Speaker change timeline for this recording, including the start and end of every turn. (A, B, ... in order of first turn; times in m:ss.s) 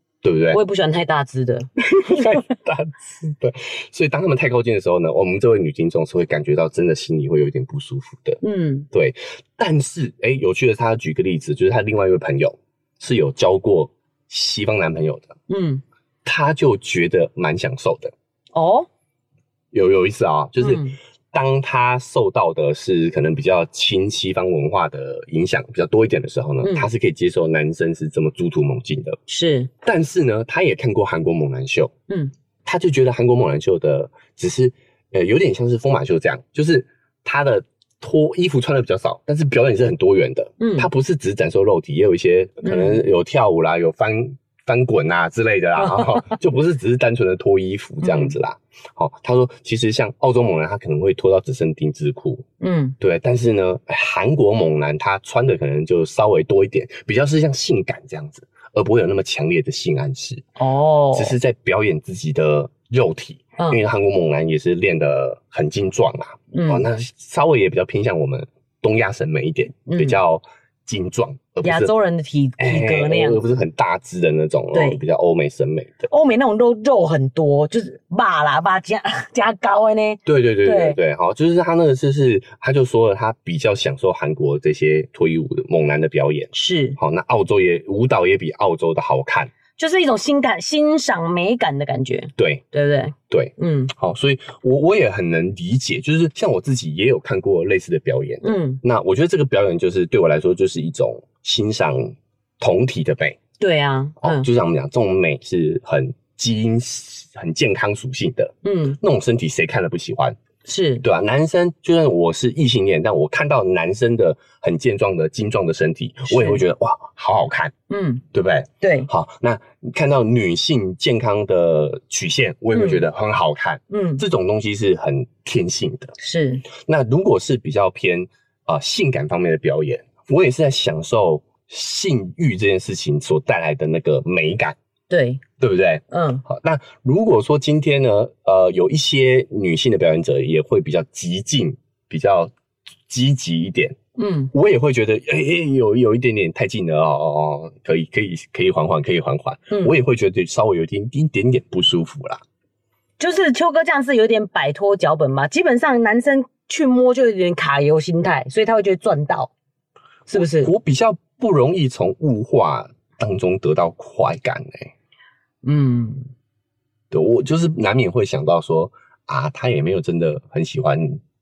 0:00.2-0:00.6 A
0:00.5-0:02.4 B
0:01.8-0:15.4 A
0:08.4-0:08.9 B
0:15.5-0:15.8 B
0:16.2-0:18.1 A
0:18.5-0:18.9 B
0:19.7-0:29.2 A
0:20.6-0:21.0 B
0:26.6-0:26.9 B
0:29.3-0:29.7 B
0:29.8-0:31.9 A
0:32.6-0:52.5 A
0:40.6-0:40.9 B
0:42.6-0:43.0 B
0:45.8-0:46.3 B
0:48.0-0:48.4 B
0:52.6-0:53.0 B
0:53.0-1:00.4 A
1:00.6-1:01.4 B
1:01.1-1:11.9 A
1:06.5-1:06.8 B
1:09.9-1:10.2 B
1:11.6-1:13.4 B
1:12.6-1:16.1 A
1:14.7-1:15.0 B
1:16.1-1:21.0 B
1:20.2-1:29.5 A
1:26.5-1:27.0 B
1:29.8-1:33.9 B
1:32.4-1:32.6 A
1:33.3-1:43.4 A
1:38.4-1:38.8 B
1:43.6-1:44.5 B
1:44.2-1:50.4 A
1:48.6-1:49.0 B
1:50.6-1:51.0 B
1:51.0-1:57.7 A
1:56.3-1:56.6 B
1:57.9-1:58.2 B
1:58.3-2:06.1 A
1:58.8-1:59.1 B
2:02.7-2:03.0 B
2:03.9-2:04.2 B
2:06.2-2:06.6 B
2:06.7-2:14.8 A
2:15.1-2:15.4 B
2:15.6-2:22.5 A
2:16.1-2:16.4 B
2:23.1-2:24.0 A
2:24.2-2:24.5 B
2:24.5-2:32.4 A
2:29.7-2:29.9 B
2:33.2-2:39.5 B
2:40.3-2:40.7 B
2:40.3-2:44.9 A
2:45.6-2:46.2 B
2:47.1-2:51.2 A